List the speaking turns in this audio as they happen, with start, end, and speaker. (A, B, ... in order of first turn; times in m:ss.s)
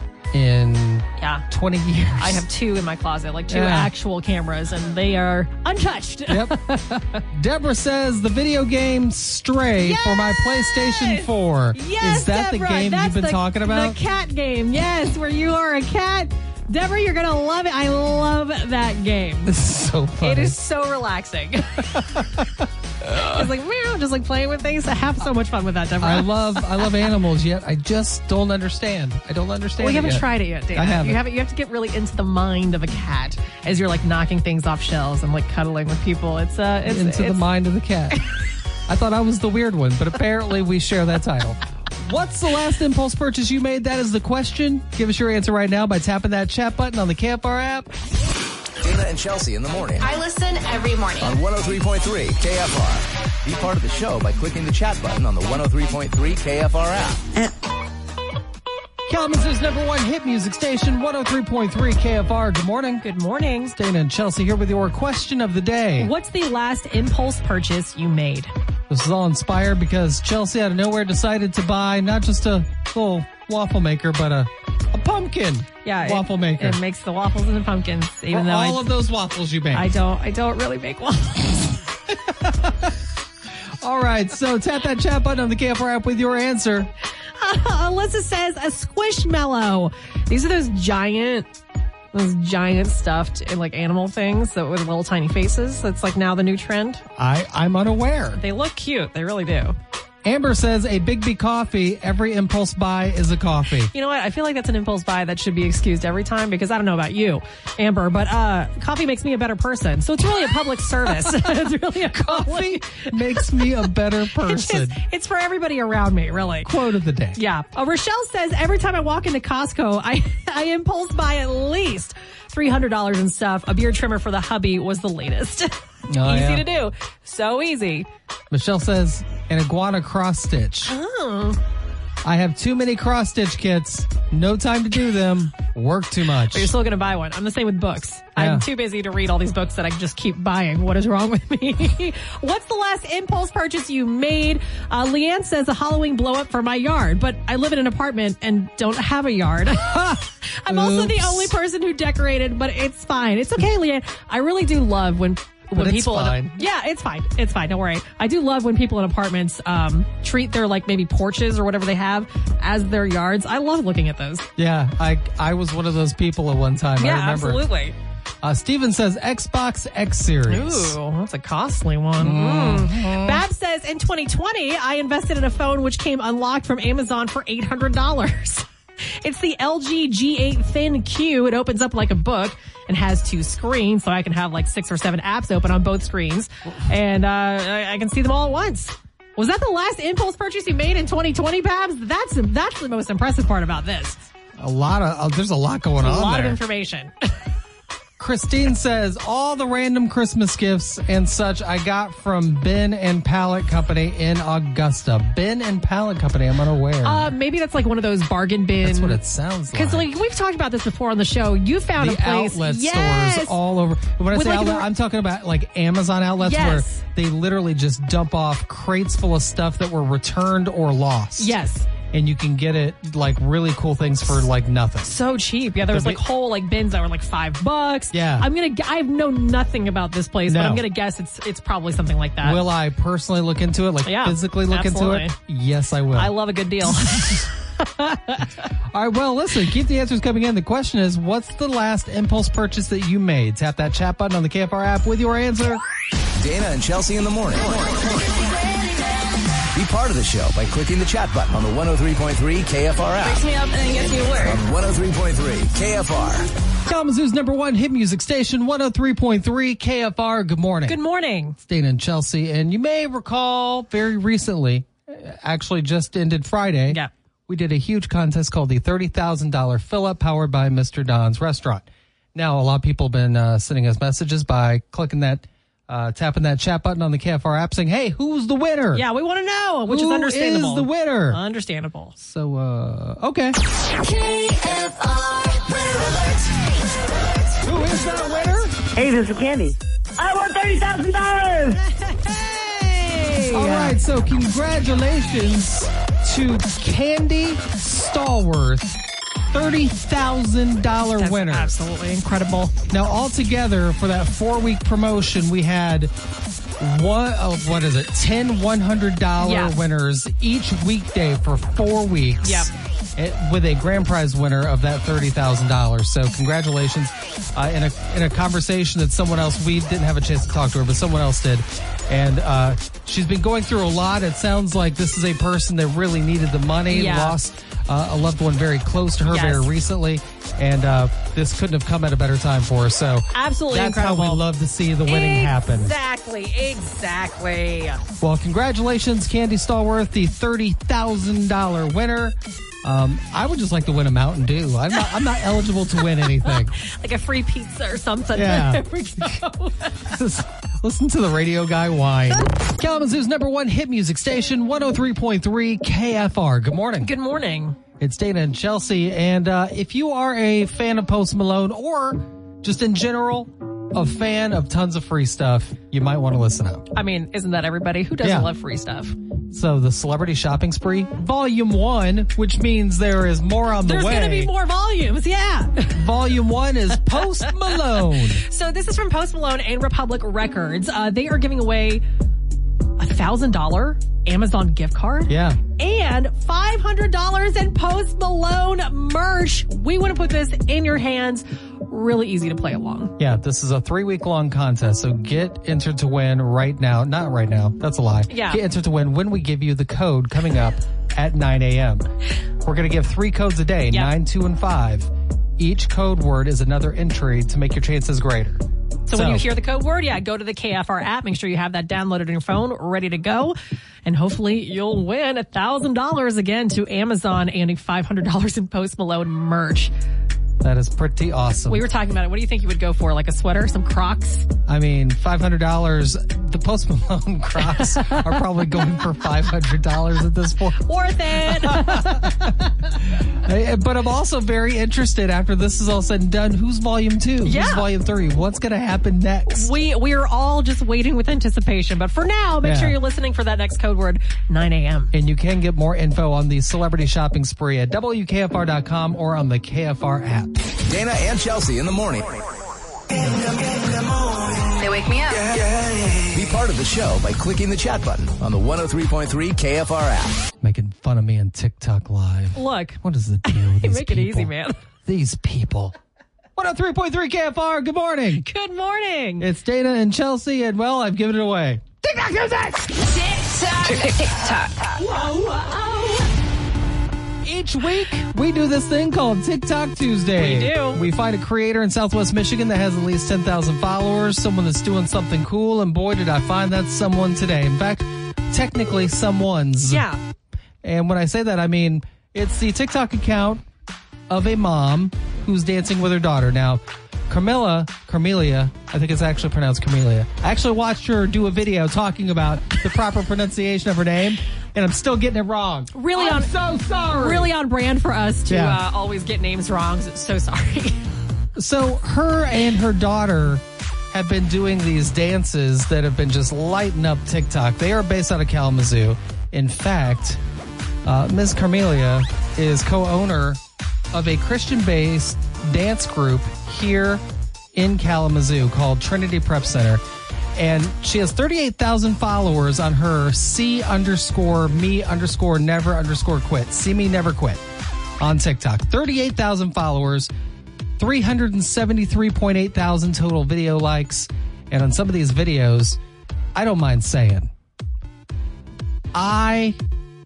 0:00.3-0:02.4 A
0:01.2-0:01.5 B
0:02.2-0:07.2 B
0:03.5-0:03.9 A
0:06.3-0:06.6 A
0:07.3-0:14.0 A
0:09.8-0:19.6 B
0:19.5-0:20.6 A
0:20.2-0:22.2 B
0:22.0-0:22.4 A
0:23.0-0:27.1 B
0:26.0-0:31.2 A
0:29.8-0:37.5 B
0:36.8-0:38.2 A
0:38.9-0:47.9 A
0:48.8-0:50.2 C
0:50.0-0:51.4 D
0:51.2-0:57.2 C
0:59.1-1:03.0 A
1:03.0-1:03.7 B
1:03.7-1:06.1 A
1:06.0-1:08.5 B
1:08.9-1:16.8 A
1:15.8-1:18.9 B
1:18.3-1:19.9 A
1:19.7-1:21.8 B
1:22.1-1:22.9 A
1:23.8-1:26.9 A
1:27.4-1:31.5 B
1:32.1-1:37.0 B
1:37.2-1:38.4 A
1:38.4-1:39.8 B
1:40.2-1:43.9 A
1:43.9-1:56.7 B
1:51.1-1:51.5 A
1:52.0-1:55.0 A
1:56.6-1:57.4 A
1:57.3-2:08.1 B
2:06.1-2:06.7 A
2:08.5-2:10.9 A
2:10.9-2:11.6 B
2:12.2-2:16.7 A
2:16.5-2:44.5 B
2:18.4-2:18.7 A
2:29.7-2:31.5 A
2:35.7-2:36.5 A
2:44.6-2:47.6 A
2:47.0-2:48.0 B
2:48.4-2:51.0 A
2:50.5-2:58.7 B
2:52.2-2:53.4 A
2:59.2-3:14.2 B
3:14.6-3:16.6 A
3:16.0-3:17.3 B
3:18.2-3:27.3 A
3:27.0-3:29.2 B
3:28.8-3:30.1 A
3:29.7-3:33.6 B
3:32.0-3:41.6 A
3:34.3-3:34.9 B
3:36.4-3:37.0 B
3:41.4-3:41.9 B
3:42.1-3:45.1 A
3:45.0-3:52.6 B
3:45.9-3:46.2 A
3:48.1-3:48.5 A
3:50.5-3:50.8 A
3:52.4-3:56.3 A
3:54.0-3:55.3 B
3:56.2-3:58.7 B
3:58.9-4:05.8 A
4:06.4-4:08.2 C
4:09.7-4:13.4 C
4:13.2-4:14.6 D
4:14.4-4:16.5 C
4:16.9-4:21.0 A
4:20.9-4:21.6 B
4:21.6-4:39.1 A
4:38.9-4:42.1 B
4:39.9-4:41.4 A
4:42.2-4:43.6 A
4:44.0-4:46.6 E
4:47.6-4:48.8 A
4:49.0-4:51.8 E
4:52.0-4:54.0 B
4:53.5-4:59.0 A
4:59.5-5:01.7 A
5:01.2-5:02.8 B
5:02.9-5:06.1 A
5:06.8-5:36.0 A
5:09.4-5:09.8 B
5:12.4-5:12.7 B
5:26.9-5:27.4 B
5:29.3-5:29.7 B
5:33.3-5:34.4 B
5:35.1-5:38.0 B
5:38.2-5:46.8 A
5:46.4-5:50.1 B
5:48.3-5:48.8 A
5:50.1-5:57.1 A
5:57.0-5:57.8 B
5:58.0-6:06.9 A
6:06.9-6:09.2 B
6:08.2-6:08.5 A
6:09.5-6:14.5 A
6:13.8-6:16.0 B
6:15.9-6:18.4 A
6:17.6-6:22.0 B
6:23.0-6:33.2 B
6:25.3-6:25.6 A
6:33.2-6:42.1 A
6:38.3-6:38.6 B
6:42.6-6:49.5 A
6:49.1-6:59.9 B
7:00.6-7:01.8 A
7:01.7-7:04.5 B
7:04.7-7:10.8 A
7:07.7-7:08.2 B
7:10.8-7:12.7 B
7:11.4-7:19.7 A
7:17.4-7:17.9 B
7:19.5-7:25.1 B
7:22.6-7:23.0 A
7:25.1-7:30.7 A
7:30.8-7:32.5 C
7:33.2-7:34.7 E
7:34.8-7:35.5 D
7:35.3-7:36.3 E
7:36.3-7:40.4 C
7:40.6-7:44.5 A
7:42.6-7:44.8 B
7:45.1-7:46.0 A
7:46.6-7:48.5 A
7:48.4-7:49.5 B
7:49.4-7:53.0 A
7:53.2-7:55.0 D
7:57.4-8:10.0 A
8:00.4-8:01.0 B
8:09.8-8:10.2 B
8:10.8-8:13.6 A
8:14.3-8:27.5 A
8:25.9-8:26.5 B
8:27.1-8:31.1 B
8:28.5-8:28.8 A
8:31.6-8:40.4 A
8:41.0-8:43.6 A
8:44.1-8:47.2 A
8:47.8-8:50.0 A
8:50.6-8:57.6 A
8:58.2-9:00.3 A
9:01.0-9:06.0 A
9:06.6-9:07.5 A
9:09.1-9:09.8 A